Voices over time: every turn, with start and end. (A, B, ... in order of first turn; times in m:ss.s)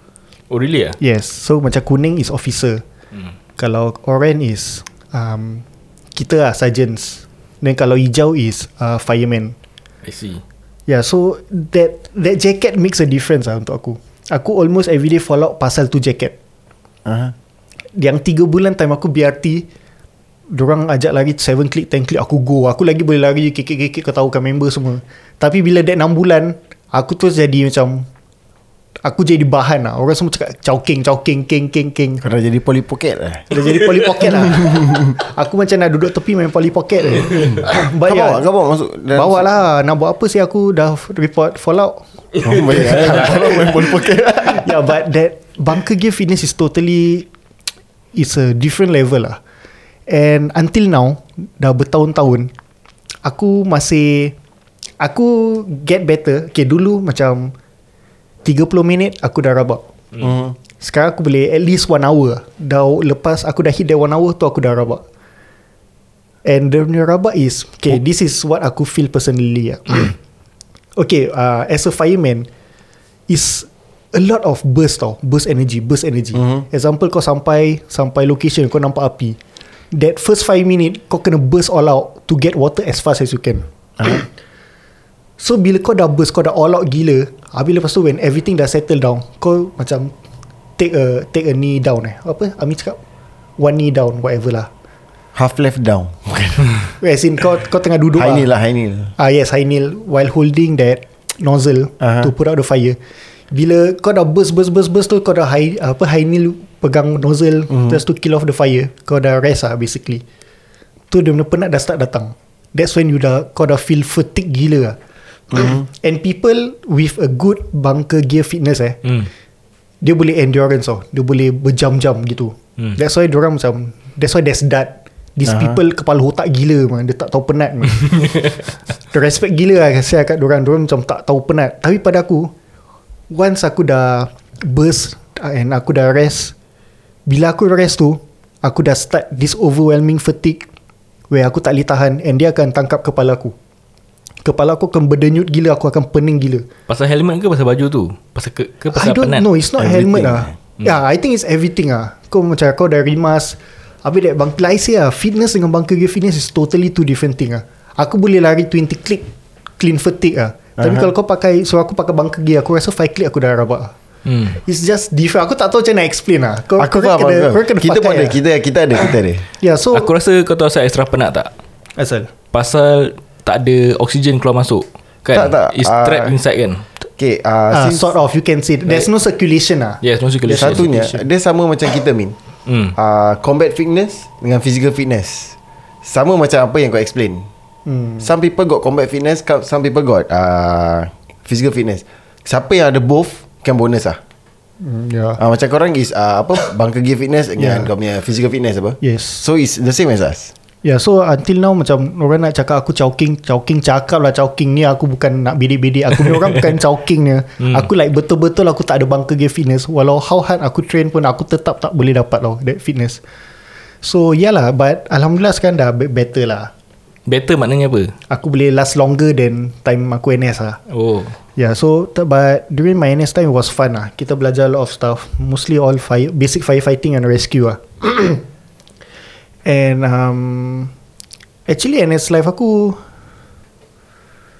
0:00.5-0:01.0 A
0:01.0-0:02.8 B
0:03.6-0:05.6 B
0:06.2-0:09.6 B
0:10.0-0:10.4 A
0:10.9-0:16.4 B
0:17.1-0:17.3 C
0:18.0-0:19.7 B
0:20.5-0:28.1 B
0:29.0-0:32.3 B
0:32.2-0:33.5 C
0:33.5-0:38.4 B
0:34.6-0:35.1 C
0:37.5-0:39.4 C
0:39.1-0:43.8 B
0:42.4-0:44.8 C
0:44.4-0:47.3 B
0:48.1-0:49.4 B
0:50.1-0:52.5 B
0:53.2-0:54.4 B
0:55.0-0:57.5 B
0:58.4-0:59.8 B
1:00.2-1:00.6 C
1:00.8-1:05.0 B
1:06.5-1:10.2 B
1:11.0-1:12.5 B
1:13.3-1:19.4 B
1:16.4-1:16.6 C
1:19.9-1:24.3 B
1:25.4-1:30.1 B
1:30.8-1:33.0 B
1:33.6-1:34.7 B
1:35.4-1:36.9 C
1:37.0-1:38.5 B
1:38.2-1:39.1 C
1:39.2-1:43.0 B
1:42.0-1:42.3 C
1:43.5-1:50.2 B
1:47.7-1:48.0 C
1:51.1-1:55.0 B
1:55.5-1:55.8 C
1:55.5-1:59.0 B
2:00.0-2:08.3 B
2:05.4-2:05.8 C
2:09.1-2:12.5 B
2:13.3-2:16.5 B
2:17.3-2:20.7 B
2:21.3-2:23.6 B
2:24.4-2:26.7 B
2:26.9-2:30.2 A
2:28.9-2:39.3 B
2:29.8-2:30.5 C
2:39.8-2:43.9 B
2:40.8-2:41.1 C
2:44.3-2:44.6 A
2:44.6-2:48.4 B
2:46.8-2:49.5 C
2:49.6-2:50.1 B
2:49.9-2:51.5 A
2:52.0-2:52.3 B
2:52.5-2:56.8 A
2:55.3-2:56.4 C
2:57.2-2:58.1 C
2:57.7-3:01.2 B
3:00.0-3:00.9 A
3:00.5-3:02.4 C
3:02.7-3:03.0 A
3:03.0-3:07.5 C
3:07.9-3:08.3 B
3:08.2-3:14.2 C
3:14.8-3:15.4 B
3:15.4-3:20.5 C
3:17.6-3:17.9 B
3:19.0-3:19.4 B
3:20.8-3:33.2 B
3:26.3-3:26.6 A
3:34.0-3:36.7 B
3:37.3-3:38.2 A
3:38.3-3:40.8 B
3:40.9-3:41.4 A
3:41.6-3:48.4 B
3:49.7-3:50.9 B
3:51.7-3:53.0 B